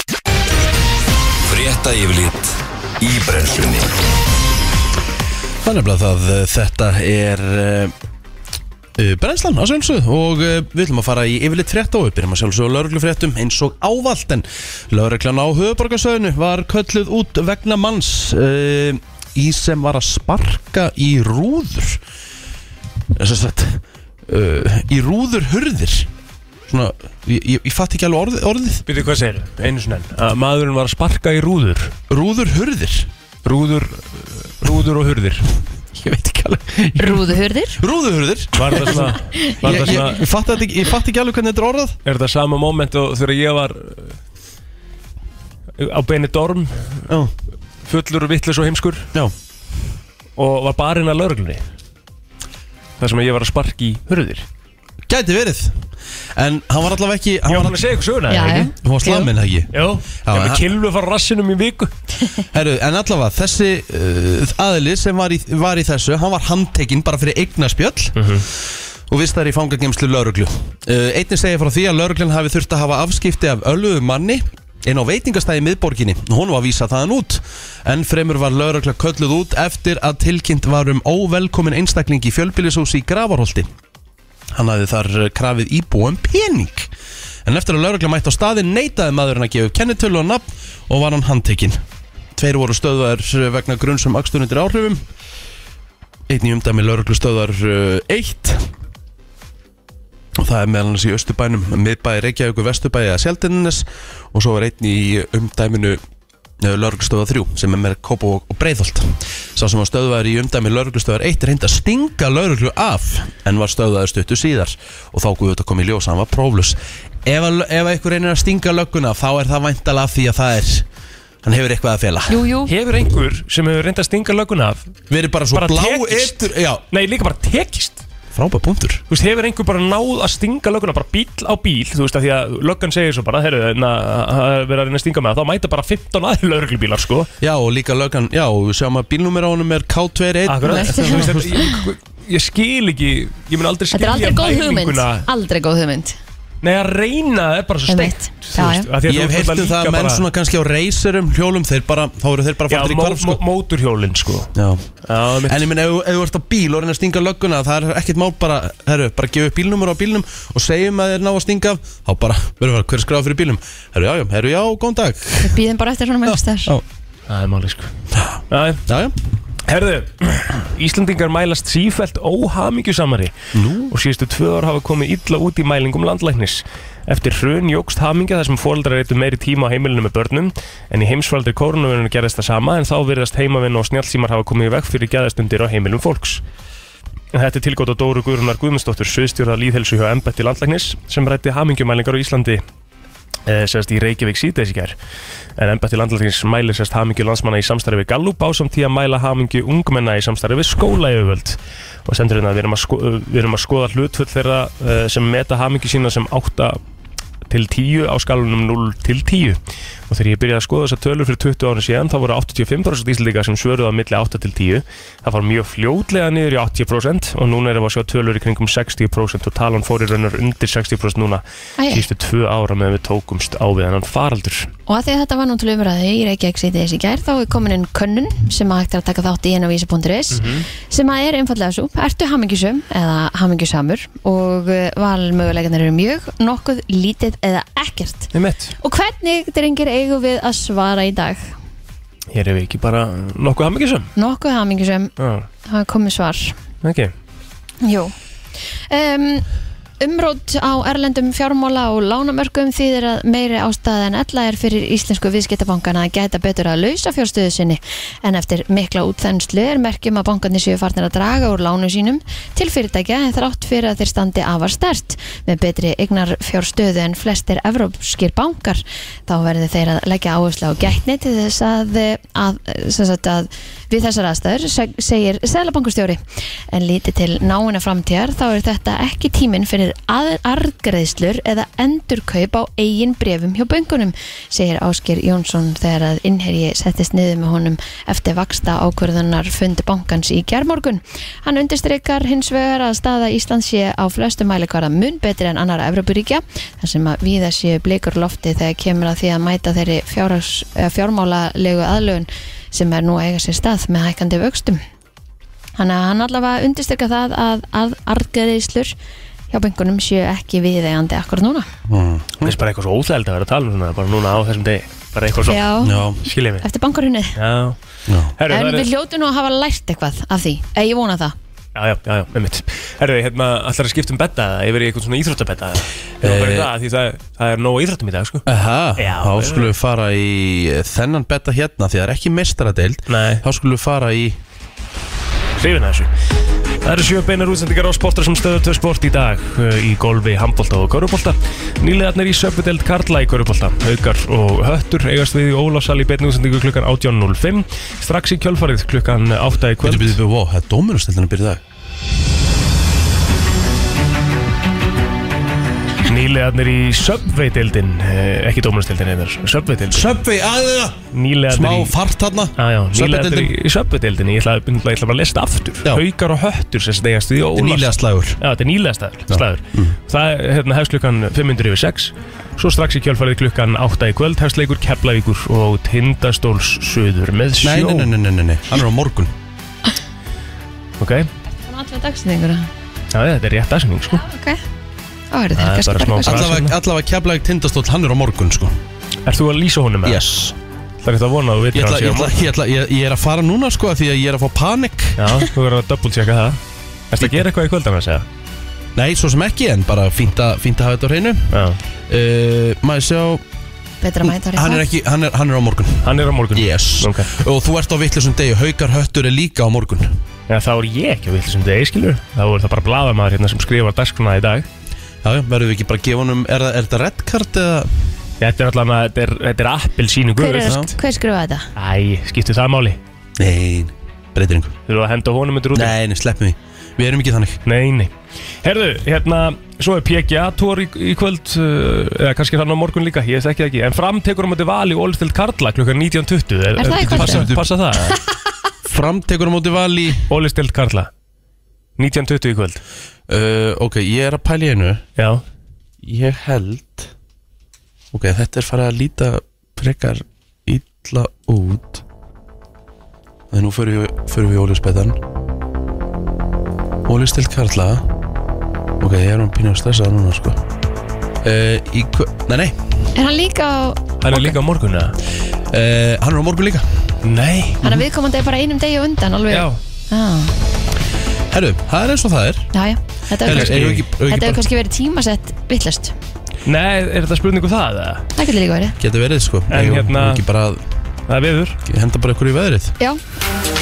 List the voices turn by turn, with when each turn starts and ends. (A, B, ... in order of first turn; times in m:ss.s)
0:01.5-0:03.9 A
0:05.6-0:07.9 B
0:09.0-0:22.0 B
0:23.2-0:26.1 B
0:26.7-0:28.8 B
0:28.9-0:32.0 C
0:32.1-0:33.1 B
0:33.4-0:35.5 C
0:36.0-0:37.2 B
0:37.0-0:37.8 D
0:37.8-0:42.0 B
0:38.6-0:40.2 C
0:39.3-0:39.9 D
0:42.0-0:44.2 C
0:45.8-0:47.1 C
0:47.1-0:47.3 B
0:47.8-0:49.1 C
0:50.4-0:51.6 C
0:53.0-0:54.5 C
0:55.1-0:57.9 B
0:57.5-0:58.7 C
0:58.3-0:59.3 D
0:58.8-1:00.7 B
0:59.7-1:01.9 C
1:02.5-1:08.2 B
1:08.2-1:08.5 C
1:09.1-1:23.7 B
1:24.5-1:26.9 B
1:27.4-1:31.8 B
1:32.4-1:35.0 B
1:36.3-1:38.7 B
1:40.4-1:46.0 B
1:46.6-2:00.9 B
2:01.4-2:02.4 B
2:02.3-2:02.7 D
2:02.7-2:04.8 C
2:05.1-2:06.8 B
2:05.5-2:08.0 C
2:08.3-2:09.0 B
2:09.1-2:17.3 C
2:17.4-2:21.6 B
2:20.5-2:25.3 C
2:20.7-2:21.8 D
2:23.9-2:26.2 D
2:26.6-2:30.2 C
2:27.9-2:28.9 D
2:29.1-2:33.4 B
2:32.7-2:34.5 C
2:34.6-2:34.9 B
2:35.1-2:35.6 C
2:35.4-2:45.6 B
2:45.4-2:46.7 D
2:46.3-2:46.8 B
2:47.3-2:47.9 C
2:48.1-2:49.2 B
2:48.5-2:48.8 C
2:49.7-2:53.4 C
2:53.5-2:53.9 B
2:53.9-3:06.4 C
3:07.3-3:12.6 C
3:13.5-3:15.0 C
3:15.6-3:26.8 C
3:27.5-3:44.7 C
3:41.8-3:42.0 D
3:44.9-4:01.5 D
3:50.3-3:50.7 C
3:58.3-3:58.8 C
4:02.3-4:04.1 C
4:04.2-4:05.1 D
4:05.2-4:05.5 C
4:05.6-4:06.6 D
4:06.8-4:07.1 C
4:07.8-4:08.1 D
4:08.9-4:09.5 D
4:10.0-5:04.8 D
5:05.8-5:09.0 D
5:09.5-5:11.7 D
5:11.9-5:12.6 B
5:12.4-5:15.7 C
5:15.5-5:16.0 D
5:15.8-5:16.2 B
5:16.2-5:16.6 C
5:16.6-5:17.4 D
5:17.4-5:17.8 C
5:18.1-5:18.3 B
5:18.4-5:18.9 C
5:18.5-5:21.4 D
5:21.8-5:28.4 C
5:26.2-5:26.7 B
5:28.5-5:34.4 B
5:29.0-5:29.7 C
5:33.1-5:33.4 C
5:35.6-5:36.1 C
5:36.8-5:50.2 C
5:49.8-5:51.6 B
5:56.1-6:00.1 C
5:59.9-6:03.5 B
6:01.1-6:01.9 C
6:02.6-6:18.1 C
6:07.6-6:08.4 B
6:09.3-6:10.0 B
6:17.6-6:19.3 B
6:21.0-6:21.3 C
6:21.6-6:22.7 D
6:23.1-6:24.2 C
6:24.1-6:24.6 D
6:25.3-6:26.4 D
6:25.6-6:26.8 C
6:26.2-6:28.8 B
6:29.3-6:30.3 C
6:30.0-6:30.6 B
6:31.0-6:32.4 C
6:31.7-6:35.2 B
6:35.2-6:36.6 C
6:37.1-6:38.3 C
6:39.0-6:43.4 B
6:41.5-6:41.8 C
6:44.0-6:44.8 D
6:44.3-6:50.2 B
6:46.0-6:47.3 C
6:50.5-6:54.7 C
6:55.2-6:57.9 B
6:58.4-7:00.9 C
7:00.4-7:01.7 D
7:00.7-7:00.9 B
7:01.8-7:03.0 C
7:03.4-7:04.8 B
7:04.9-7:06.0 C
7:05.7-7:07.6 B
7:07.7-7:08.1 C
7:08.6-7:18.2 C
7:16.8-7:17.5 D
7:16.9-7:17.7 B
7:18.9-7:20.2 B
7:20.3-7:21.1 C
7:22.0-7:22.8 C
7:23.3-7:25.1 B
7:25.2-7:25.4 C
7:26.0-7:27.1 B
7:28.1-7:32.0 B
7:33.5-7:35.2 B
7:37.1-7:38.1 B
7:39.0-7:40.6 B
7:41.4-7:42.8 B
7:43.2-7:44.6 D
7:44.2-7:45.2 C
7:45.7-7:46.9 B
7:47.2-7:47.9 C
7:47.8-7:50.6 D
7:49.5-7:49.8 C
7:51.5-7:52.7 B
7:52.7-7:56.2 D
7:53.4-7:54.6 B
7:53.5-7:54.0 C
7:56.6-7:58.3 C
7:58.4-7:59.0 D
7:59.0-8:00.8 B
7:59.7-8:00.4 C
8:01.3-8:01.8 C
8:01.9-8:03.0 B